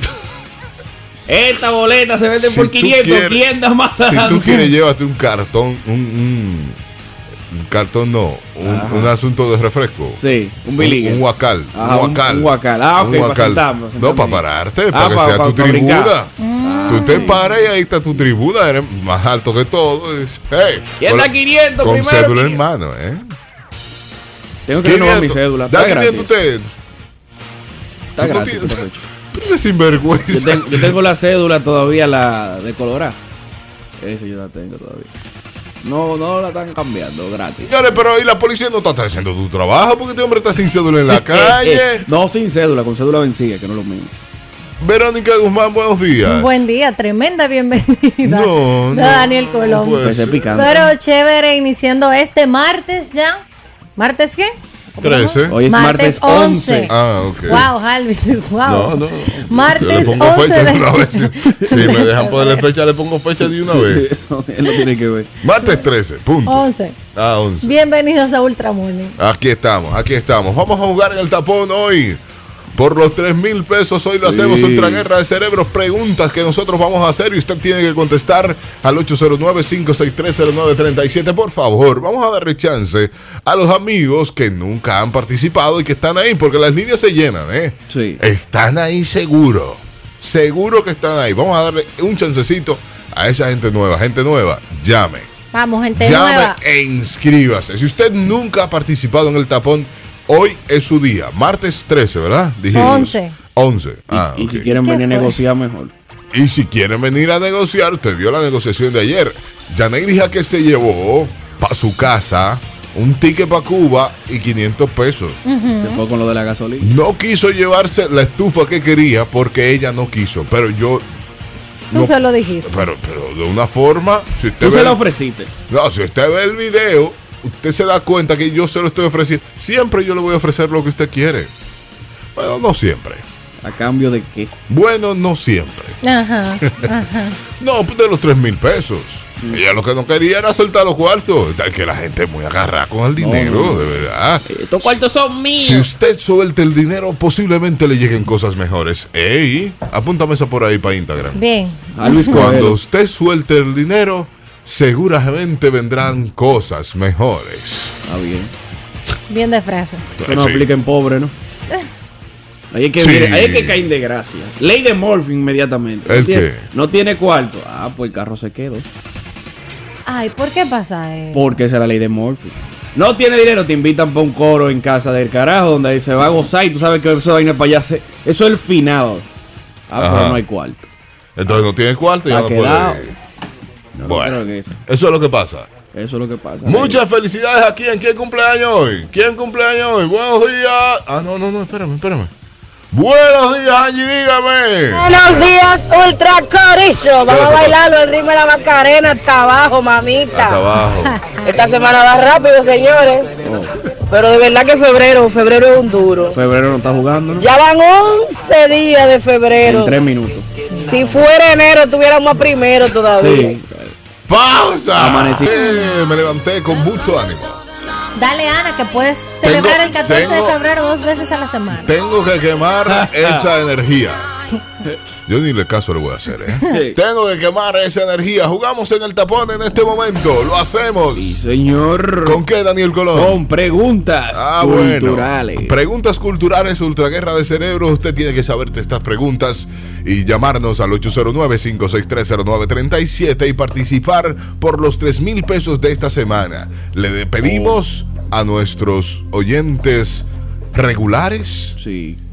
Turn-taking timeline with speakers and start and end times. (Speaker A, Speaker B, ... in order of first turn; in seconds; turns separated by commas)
Speaker A: 1.3-4.7, Speaker B: 2.3-3.4, Speaker B: 4.0-6.8, Speaker B: 7.5-10.2, Speaker A: 8.6-9.1, Speaker A: 10.2-11.2, Speaker B: 10.8-16.3, Speaker A: 11.7-17.4, Speaker C: 16.4-17.4, Speaker B: 16.9-23.3, Speaker A: 21.0-22.6, Speaker A: 24.7-26.4, Speaker B: 24.8-26.7, Speaker A: 28.2-29.0, Speaker B: 28.2-31.0, Speaker A: 30.3-33.2, Speaker A: 34.0-35.1, Speaker A: 35.8-37.7, Speaker B: 37.6-42.0, Speaker A: 41.1-44.1, Speaker B: 44.8-46.6, Speaker C: 46.2-53.4, Speaker B: 48.2-50.7, Speaker A: 50.0-50.9, Speaker C: 54.0-56.9, Speaker B: 55.0-55.6, Speaker A: 55.5-56.9, Speaker B: 56.9-57.7, Speaker C: 57.5-62.7, Speaker B: 58.6-59.1, Speaker A: 59.1-60.2, Speaker B: 59.7-64.0, Speaker A: 61.5-61.9, Speaker A: 63.5-65.4, Speaker B: 65.4-67.8, Speaker C: 66.5-67.0, Speaker C: 67.6-69.2, Speaker B: 69.2-72.2, Speaker B: 72.7-95.3, Speaker A: 74.2-75.1, Speaker A: 87.9-88.2, Speaker C: 95.5-96.6, Speaker B: 96.0-104.7, Speaker A: 102.7-103.1, Speaker C: 102.7-103.4, Speaker A: 104.1-105.9, Speaker C: 104.6-105.4, Speaker B: 106.3-115.4, Speaker C: 115.5-116.0, Speaker A: 115.8-116.9, Speaker B: 116.8-121.0, Speaker C: 121.9-122.9, Speaker B: 121.9-125.0, Speaker A: 124.6-125.5, Speaker B: 125.7-131.5, Speaker B: 132.3-133.2, Speaker A: 133.6-134.5, Speaker B: 134.7-136.0, Speaker C: 136.0-137.4, Speaker B: 136.6-136.9, Speaker B: 137.5-145.0, Speaker A: 143.2-143.9, Speaker A: 144.5-145.9, Speaker B: 145.6-151.4, Speaker C: 151.3-152.5, Speaker A: 151.9-152.8, Speaker B: 152.3-158.0, Speaker A: 158.1-158.5, Speaker C: 159.3-160.1, Speaker B: 160.2-160.7, Speaker A: 160.2-161.3, Speaker A: 162.7-168.9, Speaker B: 163.0-163.8, Speaker B: 166.1-166.6, Speaker C: 170.1-171.6, Speaker A: 171.3-179.3, Speaker A: 179.9-180.9, Speaker B: 180.0-180.4, Speaker B: 181.4-183.2, Speaker A: 182.3-183.1, Speaker A: 184.0-184.8, Speaker B: 184.0-185.7, Speaker A: 185.9-187.0, Speaker B: 186.7-192.3, Speaker B: 192.9-195.1, Speaker D: 194.9-200.6, Speaker B: 197.2-197.8, Speaker B: 200.3-201.2, Speaker C: 200.8-201.6, Speaker D: 201.4-203.3, Speaker A: 203.4-203.8, Speaker D: 204.1-206.4, Speaker A: 206.3-207.5, Speaker D: 207.4-210.0, Speaker A: 209.6-210.5, Speaker C: 210.7-211.0, Speaker D: 210.8-213.5, Speaker A: 213.1-213.9, Speaker B: 214.3-217.6, Speaker A: 215.0-215.6, Speaker C: 215.5-215.9, Speaker C: 218.2-221.9, Speaker B: 219.4-220.6, Speaker B: 221.8-224.3, Speaker A: 222.9-223.5, Speaker B: 225.3-231.4, Speaker A: 226.7-227.0, Speaker A: 231.1-232.4, Speaker B: 232.2-233.4, Speaker A: 233.1-235.7, Speaker B: 234.3-251.8, Speaker A: 247.4-247.8, Speaker A: 251.8-252.2